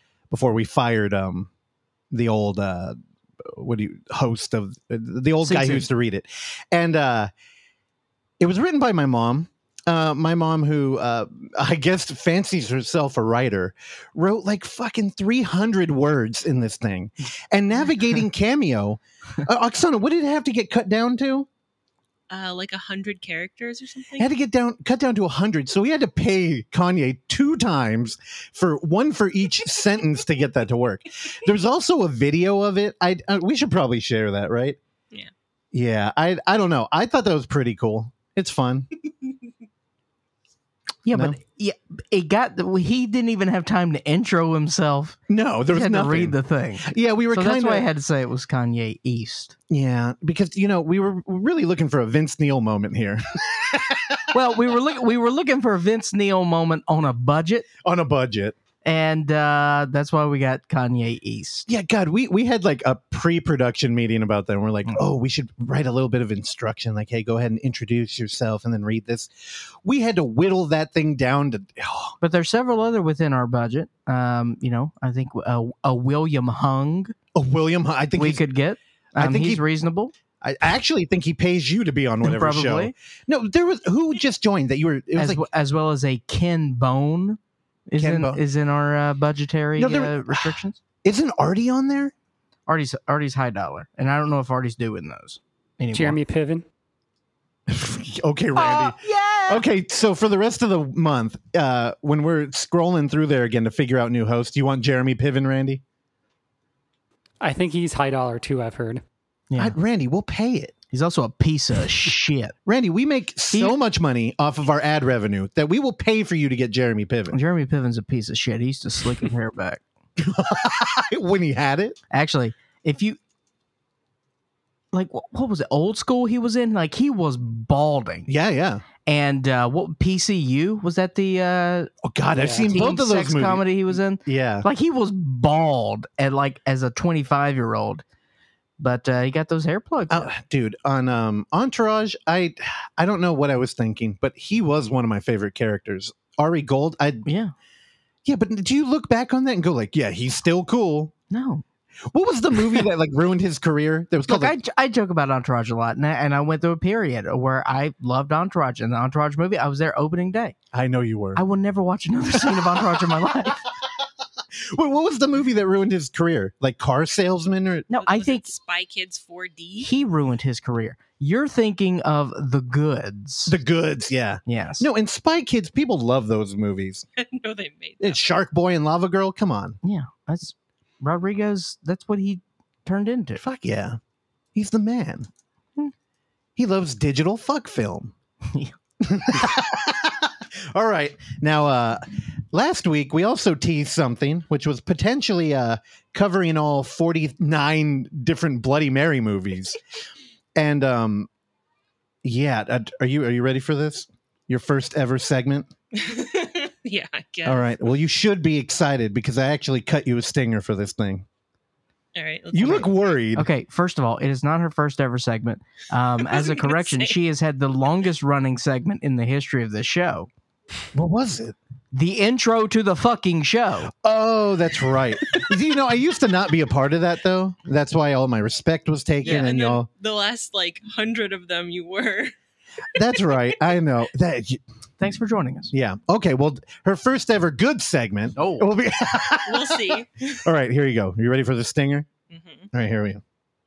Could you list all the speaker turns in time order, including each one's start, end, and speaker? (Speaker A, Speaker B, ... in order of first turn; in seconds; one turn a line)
Speaker A: 0.3-1.5
Speaker A: 2.1-7.3
Speaker B: 5.4-5.9
Speaker A: 8.4-21.5
Speaker C: 22.3-24.3
Speaker A: 24.2-34.8
Speaker A: 35.7-38.9
Speaker B: 41.0-45.2
Speaker A: 41.1-41.4
Speaker A: 45.3-47.9
Speaker B: 45.7-49.5
Speaker A: 49.7-54.4
Speaker B: 54.3-57.6
Speaker A: 57.8-58.5
Speaker B: 58.8-61.7
Speaker A: 61.7-72.2
Speaker B: 72.2-77.1
Speaker A: 77.3-78.4
Speaker B: 78.2-80.1
Speaker A: 79.2-79.7
Speaker A: 80.4-85.4
Speaker B: 82.2-82.9
Speaker B: 85.2-90.8
Speaker A: 88.0-88.4
Speaker A: 89.8-92.1
Speaker B: 92.7-96.2
Speaker D: 95.9-96.6
Speaker A: 97.7-105.8
Speaker B: 98.5-99.6
Speaker D: 107.4-109.0
Speaker B: 109.5-109.8
Speaker A: 109.6-110.7
Speaker B: 110.9-112.5
Speaker A: 112.7-117.4
Speaker B: 117.3-119.8
Speaker A: 120.2-122.0
Speaker B: 122.1-123.2
Speaker B: 124.9-128.3
Speaker A: 128.3-128.8
Speaker B: 129.1-131.9
Speaker A: 132.0-134.7
Speaker D: 132.4-132.7
Speaker B: 132.6-138.0
Speaker B: 138.8-140.3
Speaker A: 140.1-147.3
Speaker B: 147.2-147.5
Speaker A: 148.2-151.1
Speaker B: 151.3-151.6
Speaker A: 152.1-154.6
Speaker B: 154.3-160.5
Speaker A: 160.7-161.4
Speaker B: 161.3-163.6
Speaker A: 162.4-163.2
Speaker A: 164.5-167.9
Speaker B: 167.9-168.4
Speaker C: 168.0-169.9
Speaker B: 169.8-173.6
Speaker A: 173.4-177.1
Speaker B: 174.4-174.9
Speaker C: 177.2-178.4
Speaker A: 178.0-179.8
Speaker B: 179.8-183.4
Speaker A: 183.4-184.0
Speaker A: 184.5-185.3
Speaker A: 186.6-188.1
Speaker A: 189.0-199.8
Speaker A: 200.6-201.3
Speaker A: 202.2-205.7
Speaker C: 205.9-207.7
Speaker A: 207.4-211.2
Speaker C: 212.1-212.9
Speaker A: 212.5-213.5
Speaker B: 213.3-220.3
Speaker C: 216.3-217.2
Speaker A: 220.9-221.6
Speaker B: 221.9-223.9
Speaker A: 223.9-229.9
Speaker C: 229.2-232.3
Speaker B: 229.2-229.5
Speaker A: 232.9-234.6
Speaker B: 235.0-235.7
Speaker A: 235.7-242.1
Speaker B: 238.4-238.7
Speaker C: 239.4-240.4
Speaker C: 242.3-242.7
Speaker A: 242.7-243.2